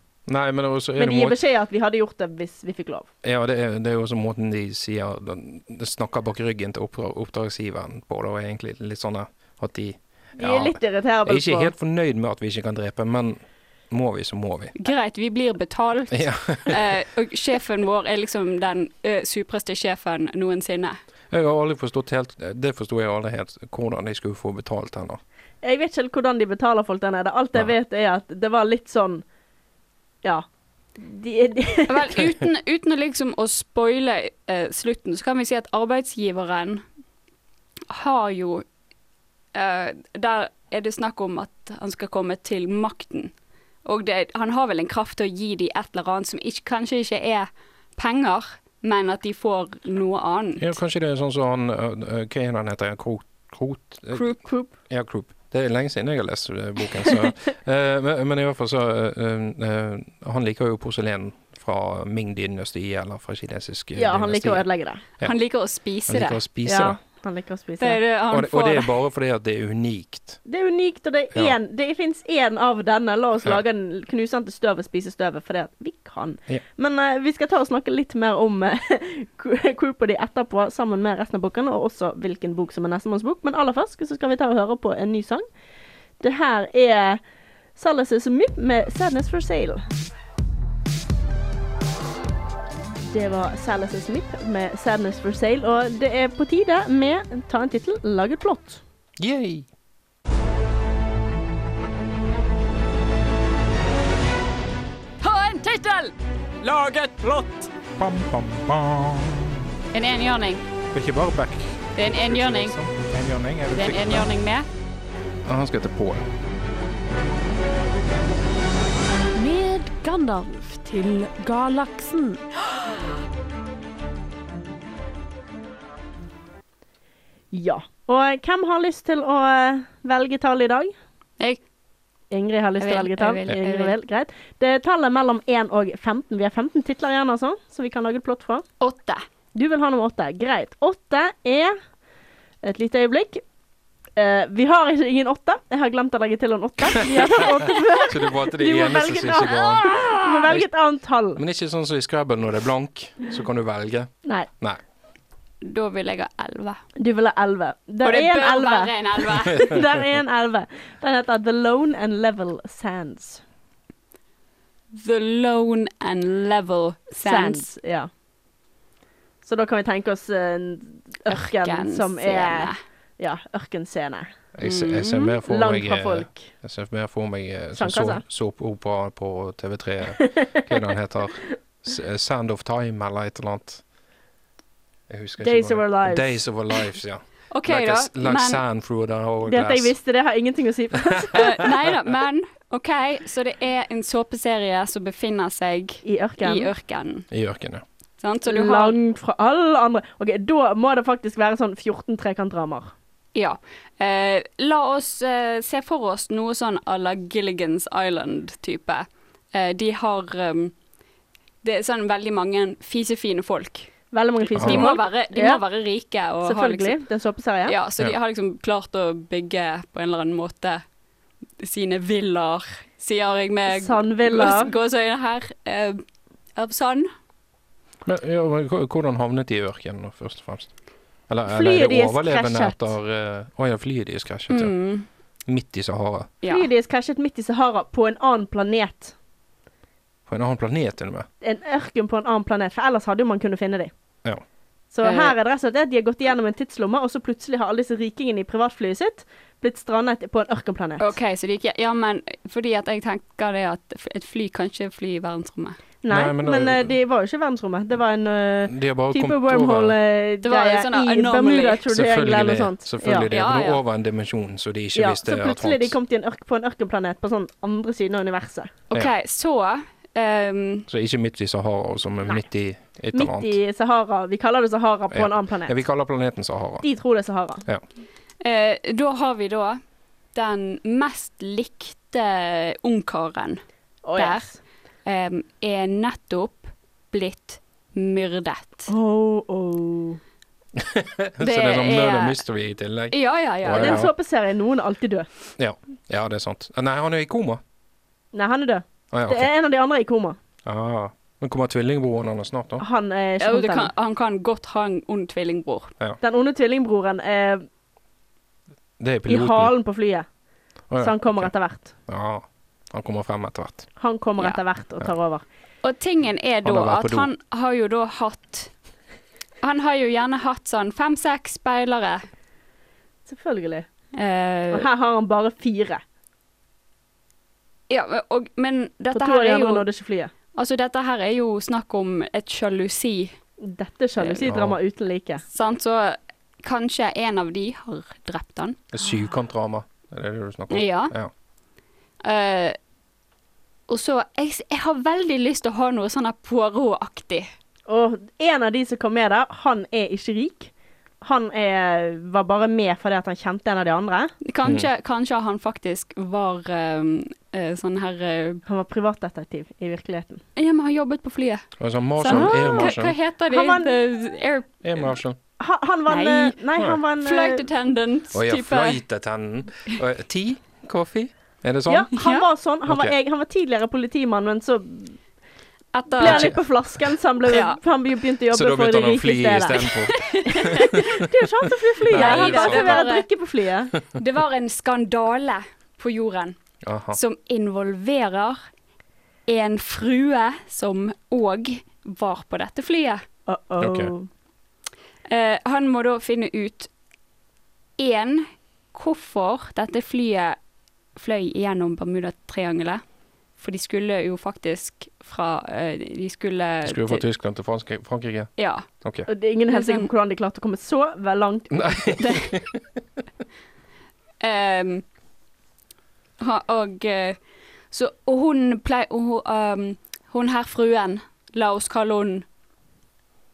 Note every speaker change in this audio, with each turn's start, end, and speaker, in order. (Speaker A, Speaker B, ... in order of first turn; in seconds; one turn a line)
Speaker A: 0.3-1.4
Speaker B: 1.0-3.1
Speaker A: 3.2-14.7
Speaker B: 10.4-11.7
Speaker C: 14.8-21.0
Speaker A: 16.1-16.8
Speaker A: 21.3-25.2
Speaker B: 25.6-29.2
Speaker B: 31.0-32.2
Speaker C: 31.9-36.8
Speaker C: 37.9-38.6
Speaker C: 39.5-43.3
Speaker C: 43.8-50.7
Speaker A: 50.6-54.2
Speaker C: 54.1-54.4
Speaker B: 54.4-54.7
Speaker A: 54.9-64.7
Speaker B: 64.0-65.0
Speaker C: 65.2-66.4
Speaker A: 66.1-67.0
Speaker B: 66.6-68.0
Speaker C: 67.8-68.9
Speaker A: 68.3-70.4
Speaker B: 70.4-85.5
Speaker B: 86.2-87.2
Speaker B: 87.8-89.8
Speaker B: 93.1-98.8
Speaker A: 99.2-99.7
Speaker C: 105.2-106.1
Speaker D: 106.6-109.4
Speaker C: 109.9-110.6
Speaker D: 110.9-114.2
Speaker C: 112.0-112.8
Speaker C: 113.7-114.7
Speaker A: 115.4-116.2
Speaker E: 119.4-122.4
Speaker B: 127.5-130.9
Speaker B: 132.3-138.6
Speaker C: 132.8-133.9
Speaker C: 138.8-139.2
Speaker B: 139.5-141.8
Speaker B: 142.6-143.4
Speaker B: 144.2-151.4
Speaker A: 148.0-150.7
Speaker A: 151.3-154.8
Speaker C: 155.6-156.8
Speaker B: 157.0-163.4
Speaker C: 158.0-159.8
Speaker C: 164.9-167.7
Speaker B: 167.2-168.1
Speaker B: 169.4-174.3
Speaker C: 171.3-172.8
Speaker A: 174.5-183.8
Speaker C: 174.6-175.3
Speaker B: 175.4-176.5
Speaker B: 177.7-178.2
Speaker B: 180.2-180.8
Speaker A: 185.1-189.9
Speaker B: 185.4-186.4
Speaker C: 187.5-188.6
Speaker B: 189.4-191.7
Speaker C: 191.3-197.2
Speaker B: 196.0-196.7
Speaker A: 197.3-197.8
Speaker C: 198.2-198.9
Speaker B: 198.4-202.9
Speaker C: 203.3-210.7
Speaker C: 211.6-213.9
Speaker B: 214.1-215.6
Speaker C: 214.5-216.9
Speaker A: 214.6-214.9
Speaker B: 216.4-217.8
Speaker C: 217.7-220.8
Speaker C: 221.6-226.0
Speaker B: 223.7-224.7
Speaker C: 226.6-227.1
Speaker A: 228.0-230.7
Speaker A: 231.3-234.7
Speaker B: 231.5-232.8
Speaker C: 234.5-235.1
Speaker A: 235.4-236.3
Speaker C: 236.4-236.7
Speaker B: 236.4-239.1
Speaker A: 240.3-241.3
Speaker B: 241.4-243.9
Speaker B: 244.9-251.1
Speaker C: 245.0-245.3
Speaker C: 251.0-255.8
Speaker B: 256.0-263.3
Speaker A: 256.1-257.0
Speaker A: 258.7-260.0
Speaker C: 260.4-261.8
Speaker A: 261.9-265.9
Speaker C: 263.3-263.8
Speaker B: 264.9-268.7
Speaker C: 268.9-270.9
Speaker A: 270.9-273.6
Speaker B: 273.1-275.8
Speaker A: 275.1-276.9
Speaker B: 276.8-277.6
Speaker C: 278.4-279.8
Speaker C: 280.3-283.6
Speaker B: 284.0-284.6
Speaker C: 284.1-284.4
Speaker C: 285.0-288.9
Speaker B: 288.9-290.2
Speaker A: 290.8-294.1
Speaker C: 291.4-292.4
Speaker C: 293.1-294.0
Speaker B: 293.8-295.3
Speaker A: 295.6-297.6
Speaker B: 298.3-300.4
Speaker A: 299.1-299.5
Speaker A: 300.6-302.8
Speaker B: 302.8-303.9
Speaker C: 303.4-305.9
Speaker B: 306.2-307.6
Speaker A: 309.0-309.7
Speaker B: 309.3-310.2
Speaker A: 310.9-311.5
Speaker B: 311.0-311.9
Speaker A: 312.1-313.9
Speaker B: 314.0-315.4
Speaker C: 315.8-318.7
Speaker A: 316.6-317.3
Speaker C: 319.6-322.2
Speaker B: 323.3-323.9
Speaker C: 324.1-324.9
Speaker B: 324.7-326.0
Speaker C: 327.9-329.8
Speaker B: 329.1-330.3
Speaker C: 330.5-333.3
Speaker B: 333.6-335.4
Speaker C: 334.2-334.4
Speaker A: 334.4-334.8
Speaker C: 335.5-338.8
Speaker A: 338.9-341.3
Speaker C: 340.7-341.1
Speaker C: 342.2-342.8
Speaker C: 343.9-347.5
Speaker B: 347.9-350.7
Speaker B: 351.2-354.3
Speaker C: 354.4-358.6
Speaker B: 358.6-360.4
Speaker C: 360.6-361.6
Speaker A: 361.8-363.1
Speaker C: 362.2-365.1
Speaker B: 362.3-362.9
Speaker B: 363.5-363.9
Speaker A: 364.8-365.4
Speaker B: 365.6-367.6
Speaker C: 366.1-366.6
Speaker C: 367.2-369.0
Speaker A: 368.3-372.1
Speaker B: 371.9-375.2
Speaker C: 372.2-372.4
Speaker A: 372.9-373.1
Speaker C: 375.9-376.6
Speaker B: 376.1-379.9
Speaker A: 376.2-376.6
Speaker C: 377.5-377.8
Speaker A: 378.5-381.2
Speaker C: 380.3-381.0
Speaker B: 380.5-383.9
Speaker A: 382.0-383.1
Speaker C: 382.1-383.2
Speaker C: 384.1-386.6
Speaker A: 386.8-387.2
Speaker C: 387.1-388.6
Speaker C: 389.5-393.2
Speaker B: 393.5-394.3
Speaker A: 393.8-394.1
Speaker C: 395.3-396.9
Speaker C: 398.0-400.6
Speaker C: 401.1-403.0
Speaker C: 403.6-407.2
Speaker A: 406.8-409.3
Speaker C: 408.6-408.9
Speaker B: 409.3-412.2
Speaker C: 409.7-410.1
Speaker A: 411.7-412.8
Speaker C: 414.4-415.0
Speaker C: 416.4-417.4
Speaker C: 417.9-422.4